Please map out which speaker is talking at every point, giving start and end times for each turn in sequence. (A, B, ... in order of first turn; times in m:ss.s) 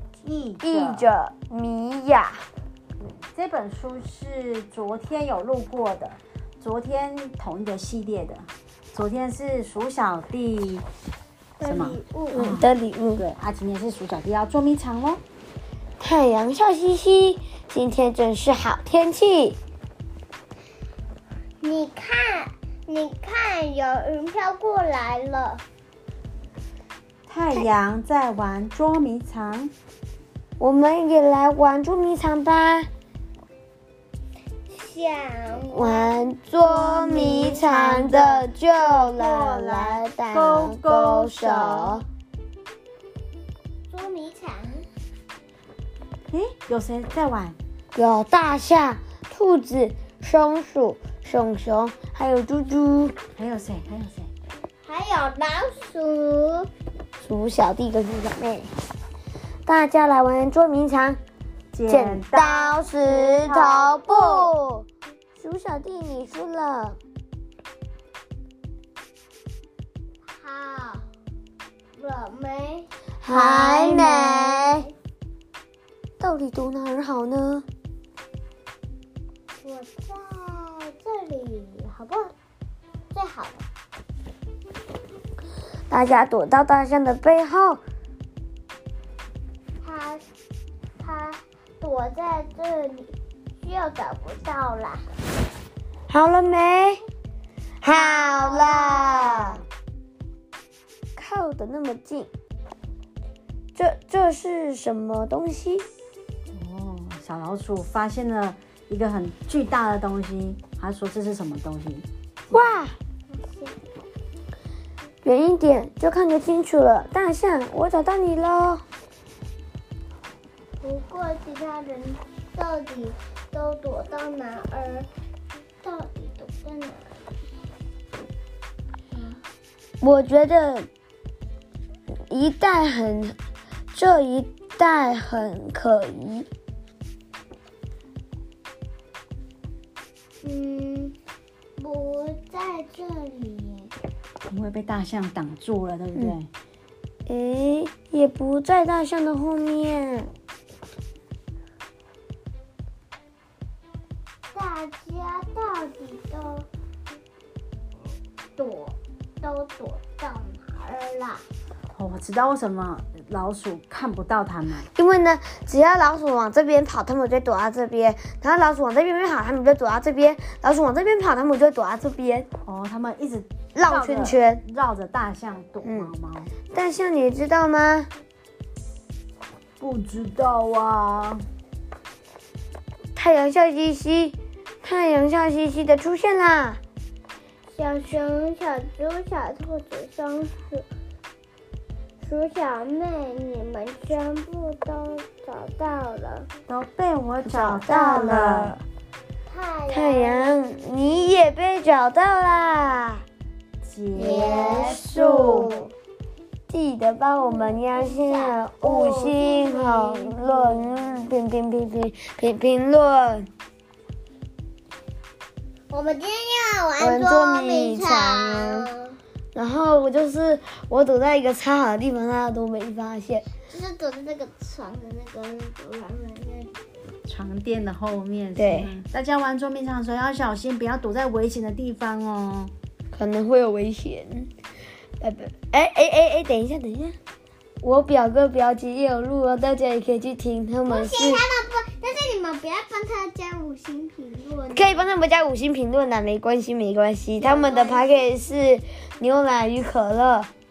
0:00.2-0:01.1 A
0:00.6-0:02.4 B
0:03.0-0:10.9 A
0:11.6-0:12.5 C
0:11.6-0:15.2 A
0:12.3-0:13.2 B
0:16.0-0:19.6 B
0:21.6-0:25.6 C
0:27.3-0:29.7 A
0:30.6-0:32.9 B
0:34.7-0:36.2 C
0:35.7-0:42.0 B
0:36.8-0:42.0 A
0:43.9-0:44.9 C
0:46.3-0:47.6 A
0:48.0-0:53.2 B
0:53.4-0:54.3 A
0:54.8-0:56.7 C
0:57.2-0:58.7 B
0:59.7-1:01.2 B
1:01.7-1:02.6 A
1:01.9-1:04.9 B
1:02.8-1:04.4 C
1:05.4-1:07.0 B
1:10.4-1:11.1 C
1:12.0-1:14.9 C
1:13.2-1:14.8 B
1:16.2-1:17.6 B
1:19.6-1:22.3 C
1:23.1-1:23.6 C
1:25.9-1:27.8 B
1:29.8-1:30.2 C
1:31.0-1:35.0 C
1:36.1-1:37.0 B
1:37.8-1:39.6 B
1:37.9-1:39.6 C
1:41.2-1:42.3 B
1:43.8-1:45.9 B
1:46.5-1:52.6 A
1:52.5-1:53.0 B
1:53.3-1:53.8 C
1:55.2-1:58.8 B
2:00.8-2:05.1 C
2:05.8-2:07.4 C
2:09.1-2:09.4 C
2:10.0-2:10.9 B
2:12.3-2:13.4 B
2:13.9-2:16.5 B
2:20.4-2:21.2 C
2:21.8-2:23.9 C
2:24.5-2:26.5 A
2:27.3-2:30.3 B
2:34.5-2:36.7 C
2:38.6-2:41.5 C
2:41.9-2:44.9 A
2:44.9-2:52.5 B
2:52.6-2:56.5 A
2:53.8-2:54.6 B
2:55.8-2:56.1 B
2:56.7-2:58.1 B
2:59.8-3:01.4 A
3:03.2-3:06.8 B
3:07.7-3:10.9 C
3:12.2-3:16.5 C
3:16.7-3:18.8 A
3:17.4-3:18.8 B
3:19.5-3:20.9 C
3:19.9-3:23.2 B
3:23.8-3:25.7 A
3:24.2-3:25.8 B
3:24.2-3:25.9 C
3:26.7-3:33.5 B
3:27.4-3:31.3 C
3:35.9-3:39.2 C
3:37.0-3:38.9 B
3:39.6-3:43.5 B
3:43.7-3:46.8 C
3:47.2-3:52.7 A
3:48.6-3:48.9 B
3:53.1-3:54.5 B
3:55.2-3:57.2 B
3:57.8-4:01.4 B
4:00.9-4:05.1 C
4:04.7-4:10.5 B
4:07.4-4:08.3 C